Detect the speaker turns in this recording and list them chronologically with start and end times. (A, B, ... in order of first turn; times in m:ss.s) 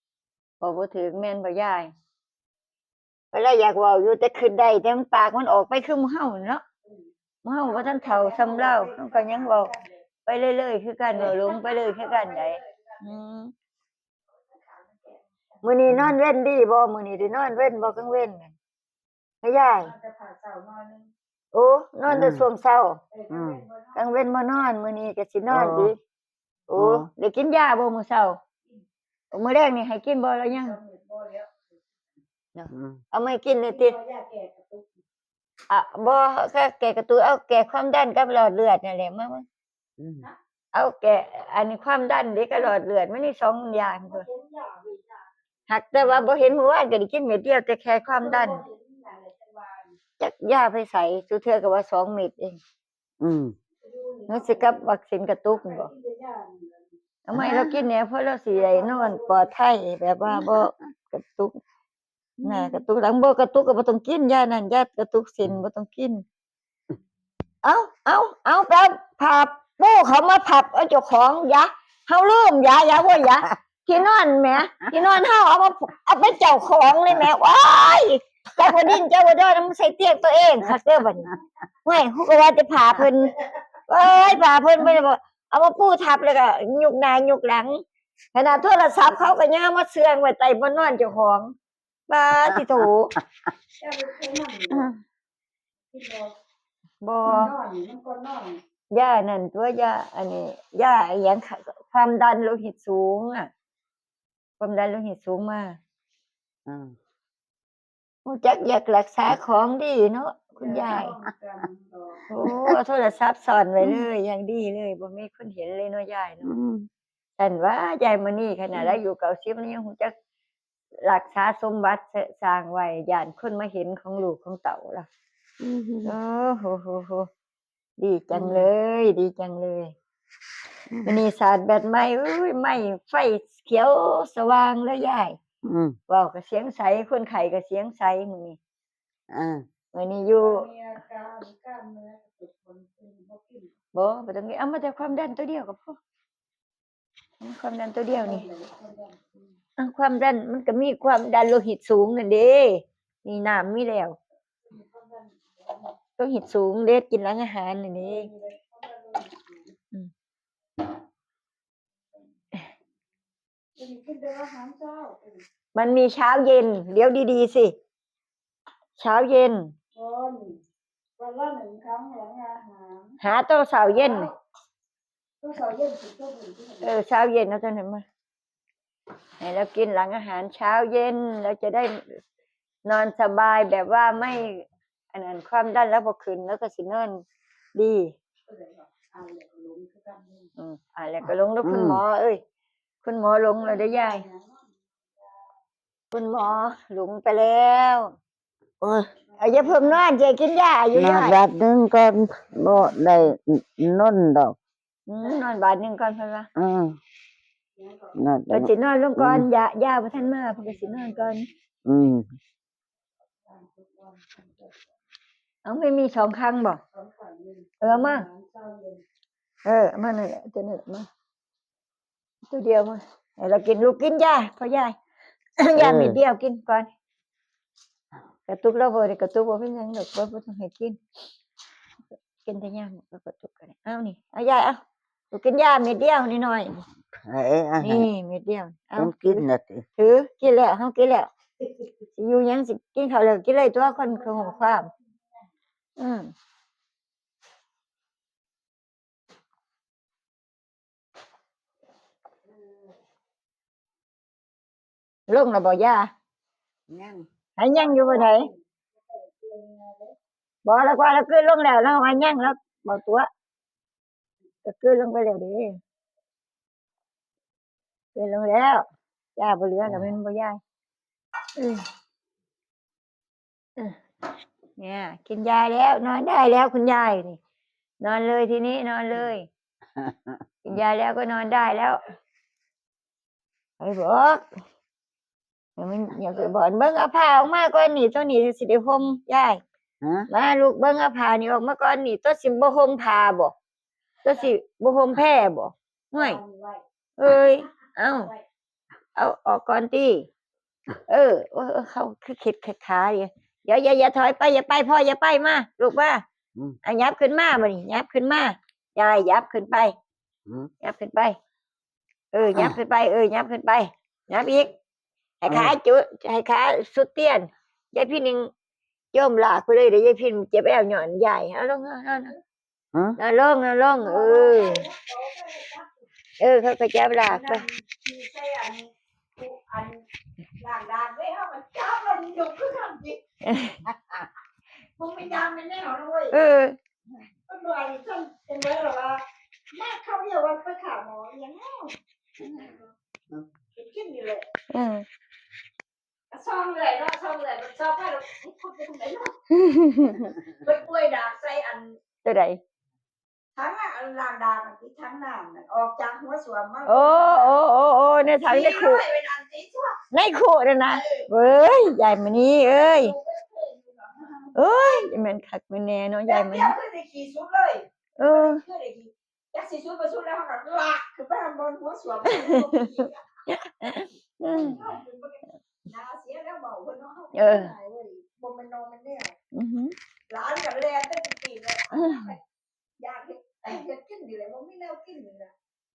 0:00.6-0:01.9 A
0:03.3-0:06.6 A
0:07.4-0:09.7 A
0:07.7-0:10.0 B
0:10.3-0:13.5 A
0:11.1-0:13.0 B
0:14.6-0:15.2 B
0:15.6-0:18.5 A
0:15.9-0:16.2 C
0:19.4-0:19.9 A
0:19.8-0:21.1 B
0:21.5-0:23.0 A
0:22.1-0:22.5 C
0:23.1-0:24.0 B
0:23.3-0:23.6 C
0:24.0-0:26.0 A
0:25.5-0:25.9 C
0:26.7-0:28.4 A
0:26.8-0:27.1 C
0:29.3-0:30.8 A
0:30.6-0:31.6 B
0:32.6-0:34.0 A
0:32.7-0:33.0 C
0:33.7-0:34.9 B
0:35.7-0:39.4 A
0:40.0-0:40.3 C
0:40.7-0:44.3 A
0:44.1-0:45.2 B
0:45.7-0:48.6 A
0:48.1-0:49.9 B
0:50.2-0:52.6 A
0:53.2-0:53.6 C
0:53.8-0:54.7 B
0:54.3-0:55.9 A
0:55.6-0:56.8 B
0:57.3-1:01.6 A
0:57.3-0:57.8 C
0:58.6-0:59.5 B
1:00.3-1:00.7 C
1:02.4-1:02.8 C
1:02.4-1:06.2 A
1:07.6-1:27.8 A
1:18.6-1:19.0 C
1:28.3-1:31.5 A
1:32.1-1:33.1 A
1:33.8-1:34.9 B
1:35.9-1:36.3 B
1:37.0-1:37.5 A
1:37.3-1:38.6 B
1:38.9-1:43.5 A
1:44.6-1:45.8 A
1:46.7-1:47.0 C
1:48.2-1:51.1 A
1:50.6-1:52.2 B
1:52.3-1:56.5 A
1:52.4-1:52.8 C
1:56.4-1:56.9 C
1:57.4-2:00.1 A
2:01.0-2:05.1 A
2:05.6-2:06.1 C
2:06.0-2:07.3 A
2:08.0-2:09.9 A
2:08.3-2:08.7 C
2:10.9-2:11.2 C
2:11.0-2:15.4 A
2:15.6-2:16.0 C
2:16.1-2:18.6 A
2:19.3-2:19.6 C
2:19.9-2:20.6 A
2:20.3-2:23.7 B
2:23.9-2:26.0 A
2:27.4-2:28.5 A
2:28.2-2:29.4 B
2:29.8-2:34.2 A
2:34.7-2:36.0 B
2:36.2-2:38.3 A
2:38.0-2:39.7 B
2:43.8-2:45.4 B
2:45.8-2:47.8 A
2:49.0-2:49.7 A
2:49.9-2:50.6 B
2:51.2-2:53.2 B
2:53.2-2:54.3 A
2:54.0-2:54.4 B
2:55.4-2:56.9 B
2:56.8-2:58.0 A
2:59.4-3:02.1 A
3:02.8-3:07.2 A
3:07.8-3:08.1 A
3:08.5-3:10.5 B
3:10.6-3:12.4 A
3:11.6-3:12.0 C
3:13.0-3:14.3 A
3:13.6-3:14.6 B
3:16.1-3:18.1 A
3:18.8-3:19.1 C
3:19.4-3:21.4 A
3:19.4-3:20.0 B
3:20.9-3:24.6 C
3:25.1-3:26.5 A
3:26.6-3:27.0 C
3:27.8-3:28.2 B
3:28.2-3:29.5 C
3:28.5-3:31.5 A
3:30.6-3:31.4 B
3:31.9-3:32.3 C
3:33.5-3:34.8 B
3:35.6-3:36.8 A
3:36.9-3:39.0 B
3:37.8-3:38.3 A
3:39.6-3:41.1 A
3:42.5-3:45.0 A
3:45.6-3:46.9 A
3:45.8-3:46.2 C
3:48.5-3:51.0 A
3:52.4-3:54.8 A
3:55.3-3:56.8 A
3:57.2-3:58.1 C
3:57.8-3:59.4 A
3:59.0-3:59.8 C
4:00.0-4:01.3 A
4:02.2-4:04.9 A
4:03.9-4:05.1 B
4:06.0-4:06.3 A
4:15.3-4:16.1 A
4:16.9-4:17.2 C
4:17.6-4:18.5 A
4:17.7-4:20.2 B
4:20.6-4:23.3 A
4:24.6-4:25.8 A
4:28.2-4:28.8 A
4:29.4-4:30.6 A
4:29.8-4:30.1 C
4:31.6-4:31.8 A
4:34.8-4:37.4 A
4:38.0-4:39.5 A
4:40.0-4:40.4 C
4:40.6-4:42.0 A
4:43.8-4:44.5 A
4:45.8-4:49.6 A
4:50.0-4:50.3 C
4:50.3-4:53.5 A
4:54.2-4:56.4 A
4:56.1-4:56.8 B
4:57.2-4:58.3 A
4:59.2-5:00.3 A
5:01.1-5:06.2 A
5:06.8-5:10.0 A
5:10.5-5:10.7 C
5:10.8-5:11.4 A
5:12.3-5:14.7 A
5:15.4-5:18.5 A
5:15.5-5:15.7 C
5:19.1-5:22.4 A
5:23.2-5:24.9 A
5:24.0-5:25.9 B
5:26.4-5:27.6 A
5:27.2-5:30.0 B
5:30.6-5:33.2 B
5:33.4-5:33.8 A
5:33.9-5:34.2 C
5:35.0-5:36.4 B
5:36.3-5:36.8 A
5:37.5-5:42.0 B
5:42.4-5:42.7 C
5:43.8-5:44.5 B
5:44.7-5:45.0 A
5:46.3-5:49.4 B
5:49.5-5:50.3 A
5:50.4-5:52.0 B
5:52.2-5:52.6 A
5:53.6-5:57.6 B
5:56.9-5:59.0 A
5:58.4-6:00.0 B
6:00.1-6:03.1 A
6:02.7-6:04.5 B
6:04.6-6:06.8 A
6:06.3-6:13.2 B
6:08.2-6:08.6 A
6:12.3-6:14.8 A
6:14.4-6:19.4 B
6:17.3-6:17.7 A
6:19.5-6:20.0 A
6:20.3-6:22.4 B
6:21.9-6:22.3 A
6:23.0-6:25.5 B